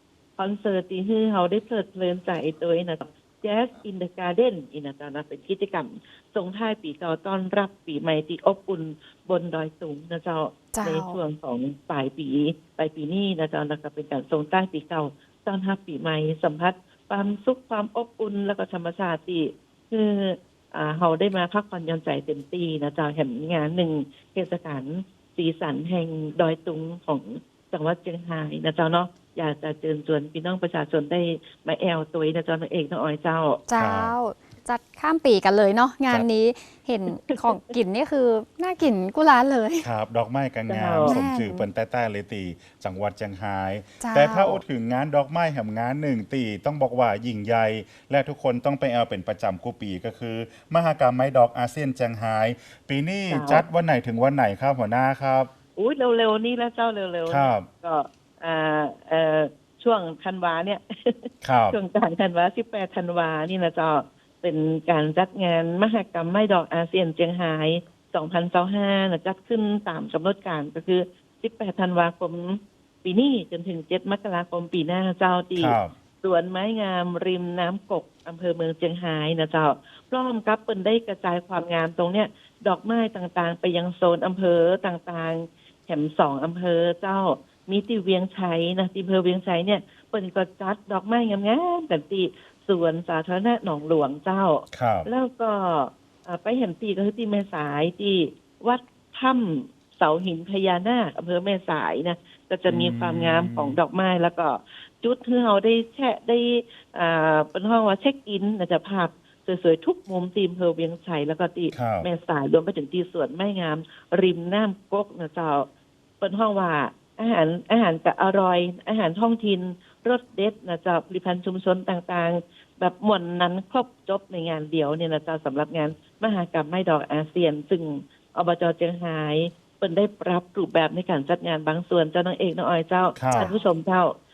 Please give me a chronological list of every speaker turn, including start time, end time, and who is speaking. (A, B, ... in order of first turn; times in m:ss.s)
0:00.4-0:33.6 A
0:10.7-0:11.2 B
0:33.7-0:39.9 B
0:33.8-0:34.1 C
0:37.1-0:37.7 A
0:39.8-0:55.5 C
0:40.7-0:41.2 A
0:41.0-0:41.6 B
0:44.0-0:44.6 B
0:53.3-0:53.6 A
0:55.8-1:55.7 A
0:57.3-0:57.7 C
1:01.4-1:01.8 C
1:15.6-1:15.9 C
1:34.7-1:35.1 C
1:42.7-1:43.8 C
1:51.7-1:52.1 C
1:56.2-2:14.1 A
2:13.2-2:13.5 C
2:13.3-2:13.6 B